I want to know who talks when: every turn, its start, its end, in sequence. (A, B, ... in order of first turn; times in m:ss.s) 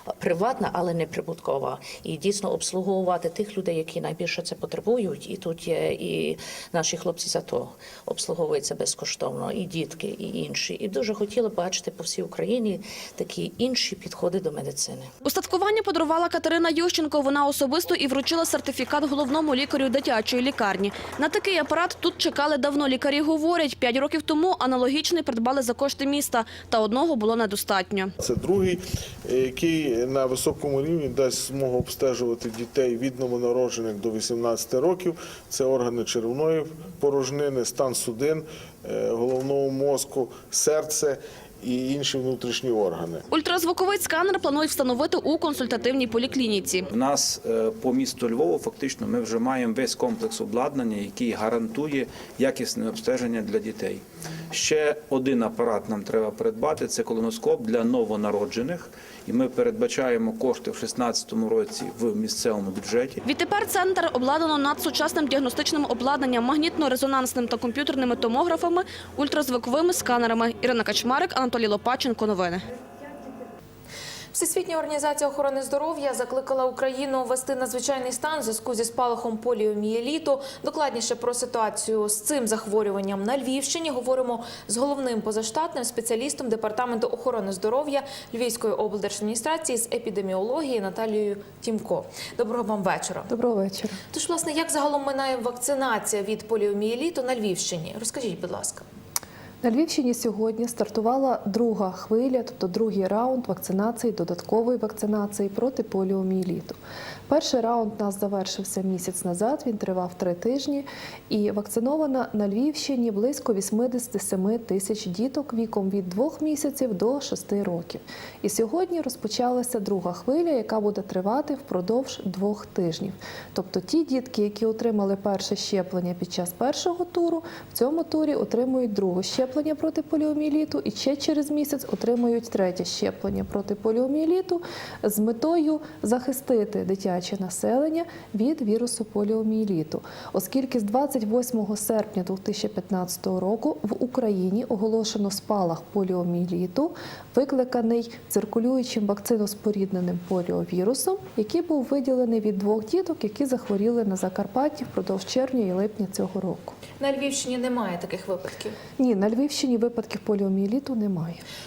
0:00.2-0:15.1 A
0:15.2-0:28.1 B
0:28.2-0:43.2 C
0:43.3-0:46.9 B
0:46.9-1:03.2 D
1:03.2-1:12.6 B
1:14.3-1:33.3 E
1:33.3-1:34.0 F
1:34.1-1:38.8 E
1:39.6-1:46.8 F
1:47.3-2:36.8 F
2:37.0-2:38.8 E
2:39.0-2:41.4 F